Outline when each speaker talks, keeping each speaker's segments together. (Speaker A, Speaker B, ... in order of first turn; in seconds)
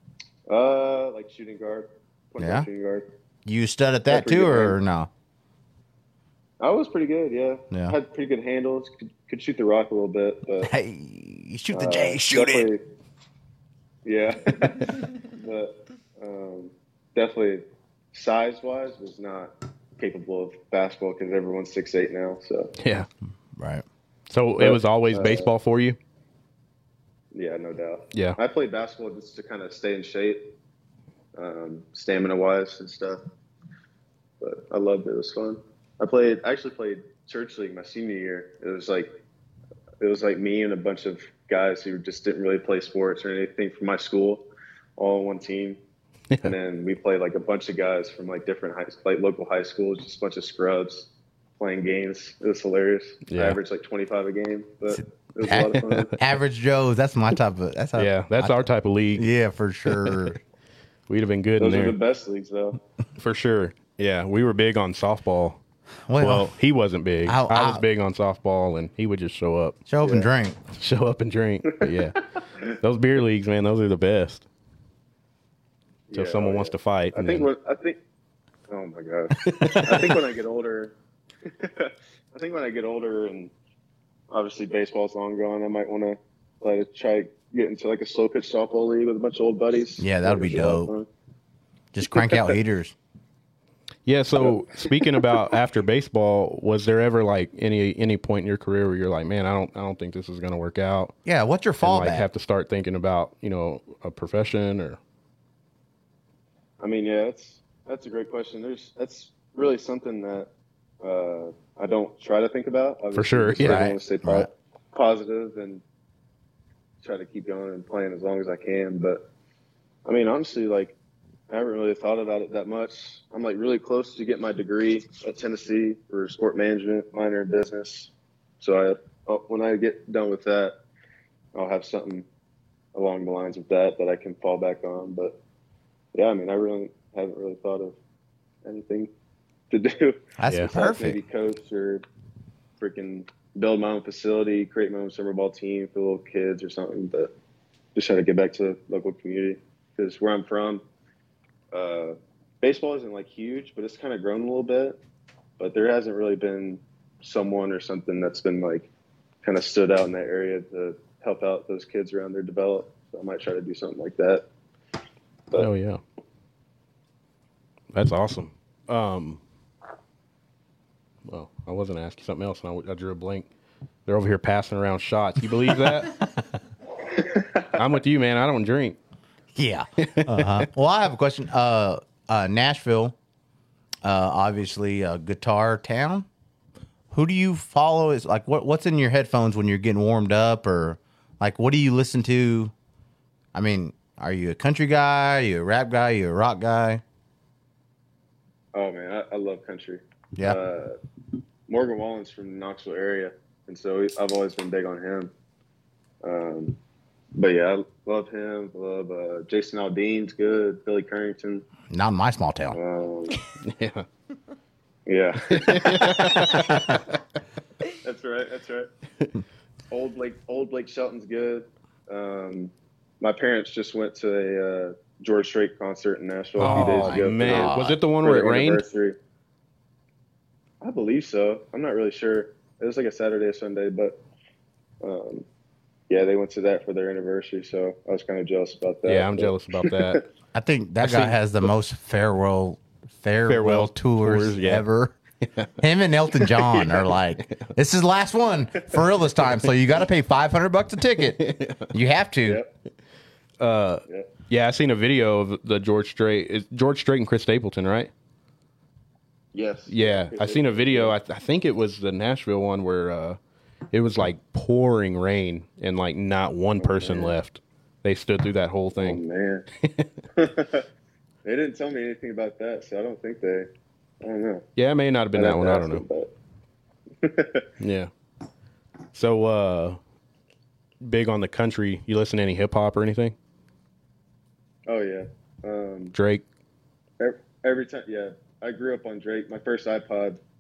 Speaker A: 0.5-3.1, 4.1-4.8, 6.6-10.7, 11.7-12.8, 14.1-22.7, 24.6-25.5, 27.3-30.4, 31.4-33.2, 34.4-39.1, 40.0-44.5, 45.0-45.8, 46.4-56.1, 61.6-62.8, 70.0-70.3, 76.1-78.0, 78.7-80.9, 81.5-83.5, 84.3-91.1, 92.1-92.6, 94.4-95.2, 106.8-110.5, 111.0-115.8, 117.0-119.2, 120.1-121.0, 121.5-130.7, 131.5-132.3, 132.9-135.3, 136.1-138.0, 138.6-139.1, 139.7-142.0, 142.8-147.3, 147.9-150.8, 151.7-155.0, 155.6-158.9, 159.4-164.4, 198.7-201.0, 201.7-205.3, 206.2-206.8, 207.3-211.7, 212.7-213.4, 215.1-216.7, 217.9-218.9, 219.9-229.2, 230.8-234.2, 235.0-235.5, 236.1-240.2, 259.5-261.2, 266.8-267.4, 269.0-269.7, 270.4-270.9, 271.4-273.7, 274.2-274.7, 275.3-276.3, 277.2-277.7, 284.9-286.1, 287.2-290.4
Speaker B: 2.4-2.7, 3.5-5.1, 10.6-12.7, 23.6-23.8, 54.9-58.6, 59.2-60.4, 66.1-66.5, 67.2-67.8, 69.9-70.6, 90.0-90.9, 91.9-93.0, 101.2-102.3, 113.6-114.5, 140.4-141.2, 179.6-183.2, 184.0-186.3, 187.1-192.7, 193.5-197.0, 211.9-212.8, 226.6-228.0, 240.5-245.2, 245.8-252.6
Speaker C: 22.8-23.1, 24.3-26.0, 28.1-28.4, 53.3-53.6, 55.8-56.2, 58.0-59.3, 59.9-60.4, 61.1-62.0, 63.2-65.6, 66.2-69.8, 70.7-74.5, 76.1-77.5, 79.4-80.2, 94.1-101.2, 101.8-105.0, 113.1-113.9, 140.5-140.7, 165.6-166.0, 167.9-169.4, 171.2-173.5, 174.1-176.2, 177.7-179.0, 180.0-180.7, 213.6-214.1, 215.5-217.2, 226.6-228.8, 239.1-240.2, 241.0-241.4, 243.5-244.8, 245.4-245.7, 251.2-251.9, 253.6-258.1, 259.9-263.4, 263.9-269.2, 269.8-270.1, 274.8-276.1, 277.8-278.1, 279.1-280.0, 281.0-283.4, 286.1-286.4